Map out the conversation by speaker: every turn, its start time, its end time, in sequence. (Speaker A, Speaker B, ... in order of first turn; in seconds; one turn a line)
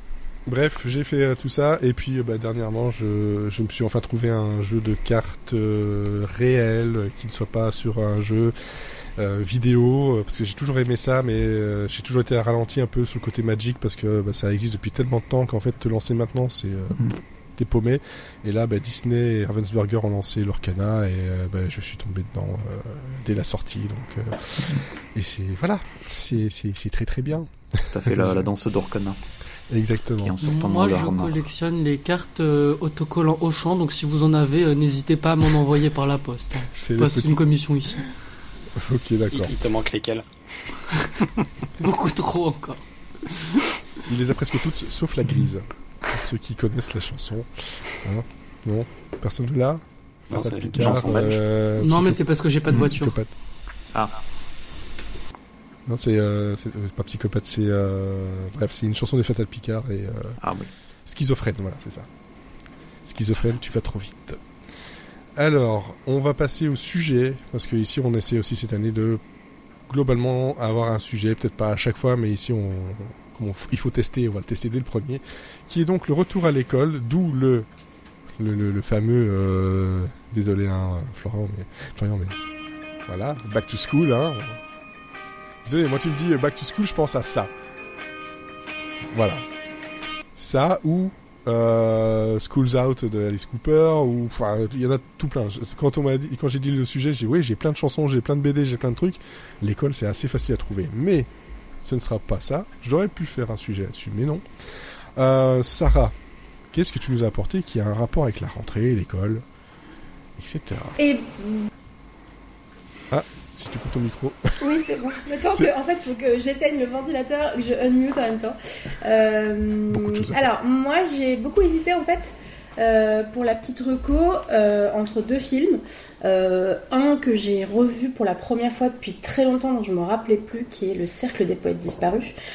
Speaker A: 0.5-28.4
Speaker B: 27.9-29.2
Speaker A: 29.7-30.4
Speaker B: 30.2-31.5
Speaker C: 30.4-38.1
Speaker A: 36.8-37.5
Speaker A: 38.8-39.5
Speaker D: 39.3-41.5
Speaker C: 41.8-43.7
Speaker A: 44.0-53.3
Speaker D: 50.3-51.4
Speaker C: 51.8-53.2
Speaker A: 55.9-60.4
Speaker B: 60.4-60.7
Speaker A: 61.0-62.1
Speaker A: 63.0-64.4
Speaker A: 65.3-69.2
Speaker A: 69.9-77.7
Speaker A: 78.3-82.3
Speaker A: 83.1-84.6
Speaker A: 85.6-87.5
Speaker A: 89.1-89.4
Speaker A: 90.3-101.3
Speaker A: 101.8-106.1
Speaker A: 106.7-109.4
Speaker A: 110.4-111.0
Speaker E: 111.0-111.7
Speaker A: 113.1-114.6
Speaker E: 114.6-132.3
Speaker A: 119.9-120.4